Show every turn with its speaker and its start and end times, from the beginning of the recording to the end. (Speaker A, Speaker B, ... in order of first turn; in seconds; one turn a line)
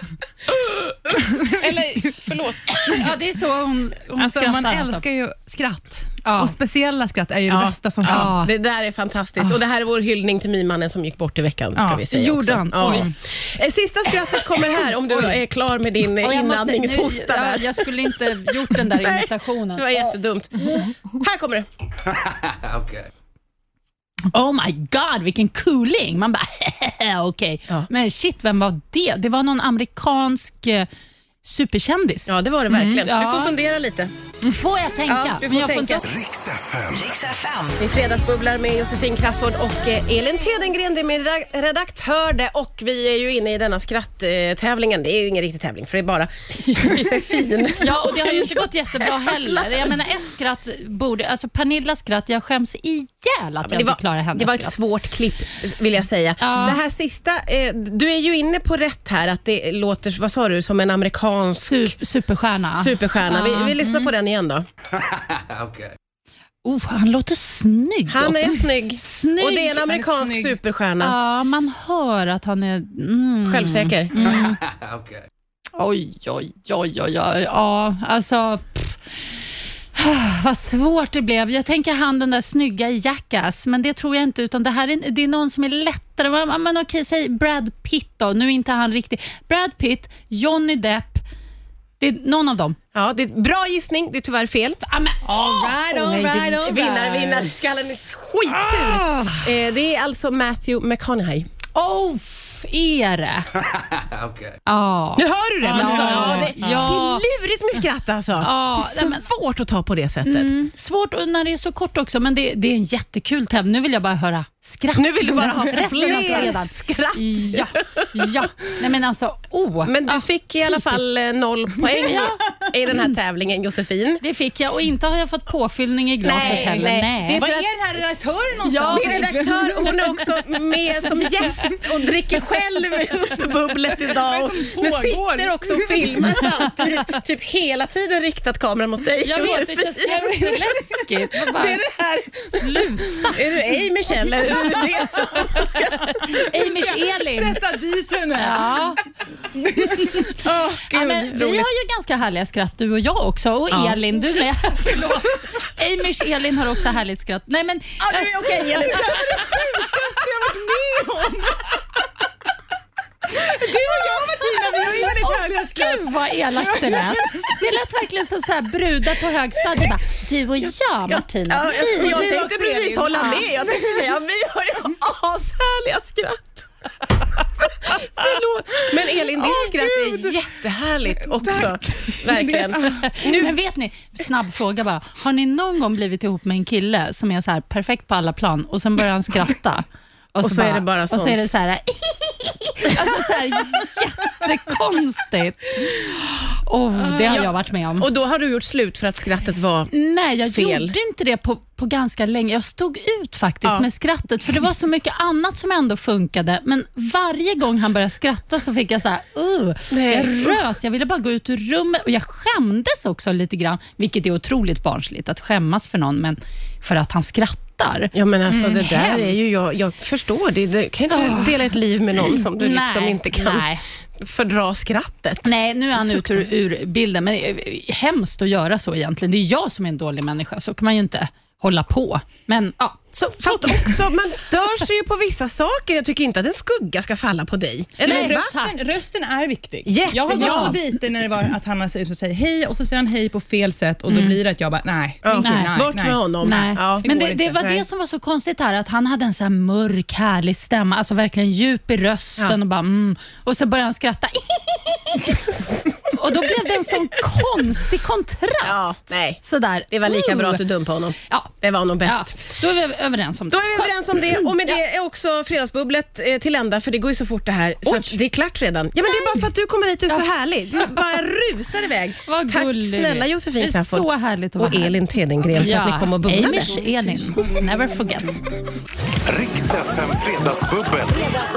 Speaker A: 0.5-3.2
Speaker B: 1.2-2.2
Speaker C: 3.0-5.0
Speaker B: 4.2-8.5
Speaker C: 6.2-6.5
Speaker A: 7.5-21.7
Speaker C: 8.1-8.5
Speaker B: 11.8-12.1
Speaker C: 12.1-13.1
Speaker B: 12.8-13.1
Speaker C: 16.2-20.1
Speaker C: 24.3-30.9
Speaker C: 31.4-32.3
Speaker A: 32.3-34.1
Speaker B: 32.7-33.0
Speaker C: 32.9-33.5
Speaker C: 34.5-36.0
Speaker A: 35.1-36.0
Speaker D: 36.0-37.2
Speaker A: 37.8-49.9
Speaker C: 46.7-47.0
Speaker C: 47.8-54.8
Speaker A: 53.6-62.0
Speaker C: 56.4-56.8
Speaker C: 61.6-64.1
Speaker A: 62.8-64.7
Speaker C: 66.7-69.8
Speaker A: 68.1-71.2
Speaker B: 69.8-70.6
Speaker C: 71.0-74.6
Speaker A: 73.5-74.5
Speaker C: 75.8-79.0
Speaker C: 79.9-91.2
Speaker C: 92.0-92.8
Speaker A: 92.9-94.8
Speaker C: 94.8-95.8
Speaker B: 95.2-97.5
Speaker A: 95.7-101.5
Speaker C: 98.5-99.5
Speaker C: 101.8-103.5
Speaker C: 104.7-107.2
Speaker A: 105.2-110.5
Speaker B: 105.6-107.0
Speaker C: 108.4-109.3
Speaker C: 110.2-121.0
Speaker A: 115.0-118.5
Speaker A: 119.8-124.2
Speaker C: 122.0-123.0
Speaker C: 124.2-127.5
Speaker A: 126.2-127.7
Speaker B: 126.4-130.4
Speaker C: 128.7-129.7
Speaker A: 128.9-140.3
Speaker B: 131.0-131.3
Speaker B: 134.1-136.5
Speaker C: 139.2-143.4
Speaker B: 140.1-141.1
Speaker A: 141.5-142.7
Speaker A: 143.2-146.4
Speaker C: 144.8-147.6
Speaker B: 146.3-148.9
Speaker C: 148.4-149.0
Speaker B: 149.6-150.2
Speaker C: 149.7-150.3
Speaker A: 150.3-151.7
Speaker C: 150.9-159.6
Speaker A: 153.7-154.0
Speaker B: 154.8-155.8
Speaker A: 158.0-160.5
Speaker B: 158.9-161.8
Speaker B: 163.3-167.7
Speaker C: 163.8-172.4
Speaker A: 164.9-165.2
Speaker A: 170.6-176.7
Speaker B: 172.0-174.1
Speaker C: 173.1-173.4
Speaker A: 177.6-183.6
Speaker B: 179.4-180.4
Speaker B: 181.2-183.4
Speaker C: 183.0-198.1
Speaker A: 190.4-191.5
Speaker A: 197.2-199.9
Speaker C: 199.9-219.5
Speaker A: 200.5-200.9
Speaker A: 209.9-210.6
Speaker A: 218.1-223.7
Speaker C: 221.1-221.7
Speaker C: 222.2-223.8
Speaker A: 224.2-225.5
Speaker C: 225.4-234.1
Speaker A: 233.4-238.6
Speaker C: 238.0-238.8
Speaker B: 238.0-247.7
Speaker A: 239.9-240.8
Speaker C: 240.3-240.8
Speaker C: 244.1-244.4
Speaker A: 245.2-247.8
Speaker C: 245.4-245.8
Speaker C: 246.4-260.6
Speaker A: 255.3-256.1
Speaker A: 258.6-262.4
Speaker C: 261.3-261.5
Speaker C: 262.1-264.8
Speaker A: 263.5-274.1
Speaker C: 267.9-268.2
Speaker C: 269.1-269.4
Speaker C: 272.3-275.0
Speaker A: 274.6-276.8
Speaker C: 275.5-278.4
Speaker D: 279.3-281.4